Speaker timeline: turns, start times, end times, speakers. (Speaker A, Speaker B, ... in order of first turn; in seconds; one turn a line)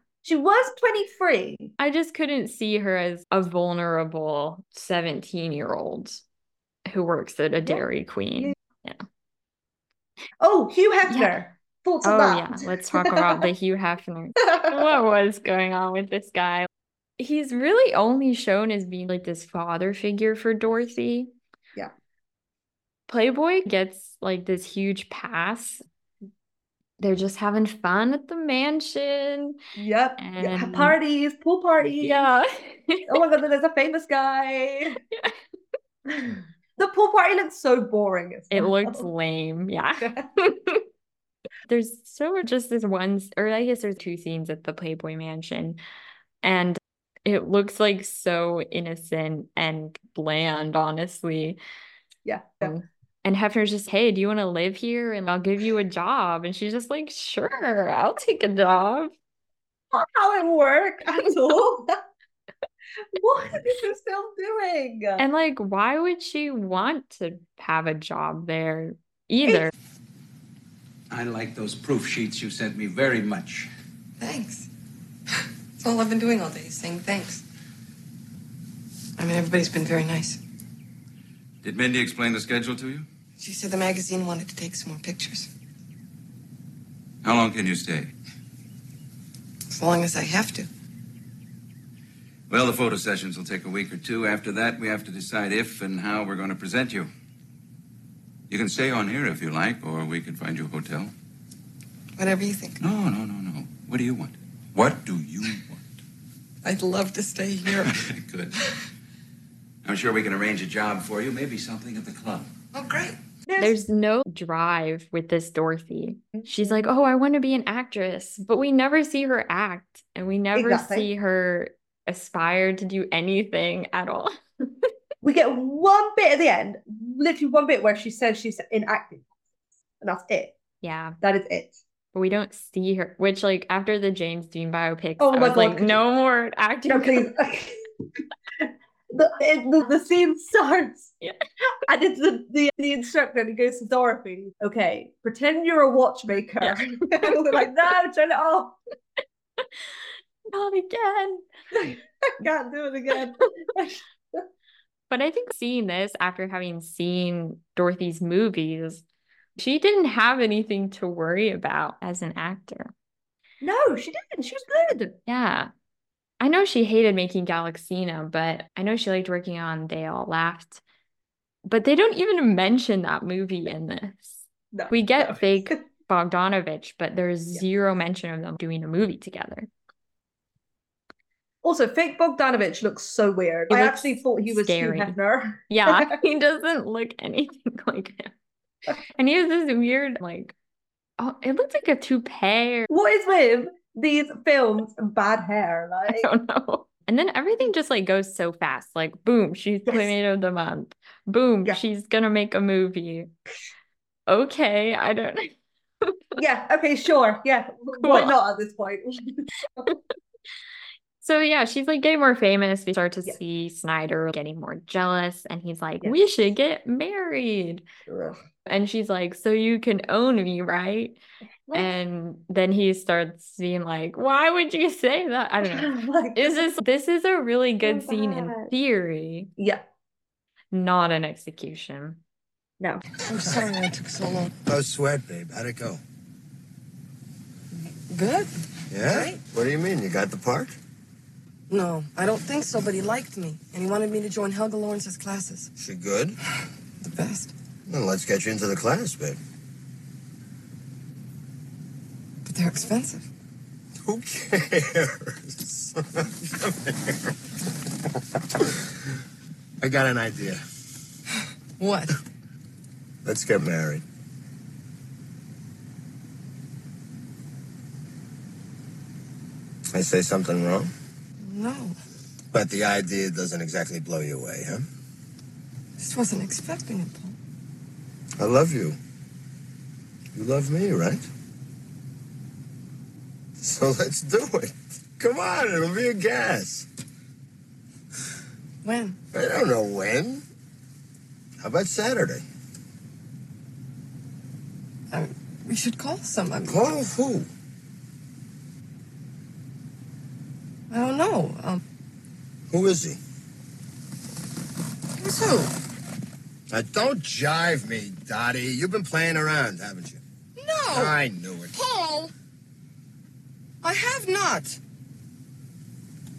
Speaker A: 0.2-1.7
Speaker B: 1.8-6.2
Speaker B: 6.9-9.0
Speaker A: 10.4-13.4
Speaker B: 11.1-11.3
Speaker B: 12.0-21.3
Speaker B: 23.1-25.8
Speaker B: 27.0-29.6
Speaker A: 29.8-32.2
Speaker B: 30.2-31.0
Speaker B: 32.0-33.2
Speaker A: 33.1-35.0
Speaker A: 36.1-39.0
Speaker B: 38.5-40.8
Speaker B: 41.7-45.8
Speaker B: 46.4-51.6
Speaker A: 52.2-52.7
Speaker B: 52.6-59.1
Speaker A: 59.9-61.9
Speaker A: 63.1-65.2
Speaker B: 65.2-69.7
Speaker A: 69.5-69.7
Speaker C: 71.1-73.7
Speaker D: 74.2-74.7
Speaker D: 75.8-77.4
Speaker D: 79.2-80.4
Speaker C: 81.6-83.0
Speaker D: 83.4-85.5
Speaker C: 87.2-88.1
Speaker D: 89.7-90.7
Speaker C: 92.5-97.1
Speaker C: 98.5-101.1
Speaker D: 102.2-102.8
Speaker C: 102.8-105.9
Speaker D: 106.6-107.9
Speaker C: 107.8-108.5
Speaker C: 109.8-112.5
Speaker D: 112.7-113.2
Speaker A: 113.5-113.8
Speaker B: 113.6-124.3
Speaker A: 120.5-121.1
Speaker A: 125.2-129.4
Speaker A: 129.9-130.5
Speaker B: 130.8-131.2
Speaker A: 131.2-131.8
Speaker B: 132.1-137.3
Speaker A: 135.2-136.0
Speaker A: 136.8-137.8
Speaker A: 138.6-141.1
Speaker A: 141.8-148.8
Speaker B: 146.6-147.3
Speaker B: 150.5-151.4
Speaker A: 151.7-154.4
Speaker B: 155.1-159.0
Speaker B: 159.6-162.9
Speaker A: 163.6-165.2
Speaker B: 165.2-165.7
Speaker B: 166.4-170.8
Speaker B: 171.7-179.7
Speaker A: 174.7-175.8
Speaker A: 181.6-186.2
Speaker B: 183.7-185.2
Speaker B: 185.7-188.3
Speaker B: 189.2-190.5
Speaker B: 191.2-192.9
Speaker A: 192.9-196.3
Speaker B: 196.1-203.3
Speaker A: 199.9-200.1
Speaker B: 204.3-206.2
Speaker A: 206.3-209.9
Speaker B: 208.0-208.3
Speaker B: 211.2-217.8
Speaker A: 218.1-218.4
Speaker B: 218.7-221.2
Speaker B: 221.7-229.5
Speaker A: 225.6-226.6
Speaker A: 227.8-228.7
Speaker A: 229.6-229.8
Speaker B: 230.7-232.2
Speaker D: 233.2-234.5
Speaker E: 233.4-233.7
Speaker E: 234.7-236.0
Speaker D: 237.8-239.4
Speaker E: 238.9-240.8
Speaker D: 241.7-245.7
Speaker E: 245.8-246.3
Speaker D: 247.0-247.5
Speaker E: 247.9-249.4
Speaker D: 252.4-253.2
Speaker E: 254.0-257.1
Speaker E: 259.8-260.6
Speaker D: 261.8-262.1
Speaker E: 263.2-264.0
Speaker E: 269.9-270.9
Speaker D: 271.4-271.9
Speaker E: 272.5-274.9
Speaker D: 276.0-277.4
Speaker E: 278.4-279.0
Speaker E: 280.3-281.3
Speaker E: 283.6-286.9
Speaker D: 288.8-289.2
Speaker E: 289.3-290.4
Speaker E: 291.6-292.4
Speaker D: 295.1-296.9
Speaker E: 296.7-297.5
Speaker D: 300.9-301.8
Speaker E: 302.7-303.2
Speaker D: 305.2-305.7
Speaker E: 306.7-310.2
Speaker D: 310.6-311.1
Speaker E: 310.9-311.8
Speaker D: 311.7-312.3
Speaker D: 313.8-314.8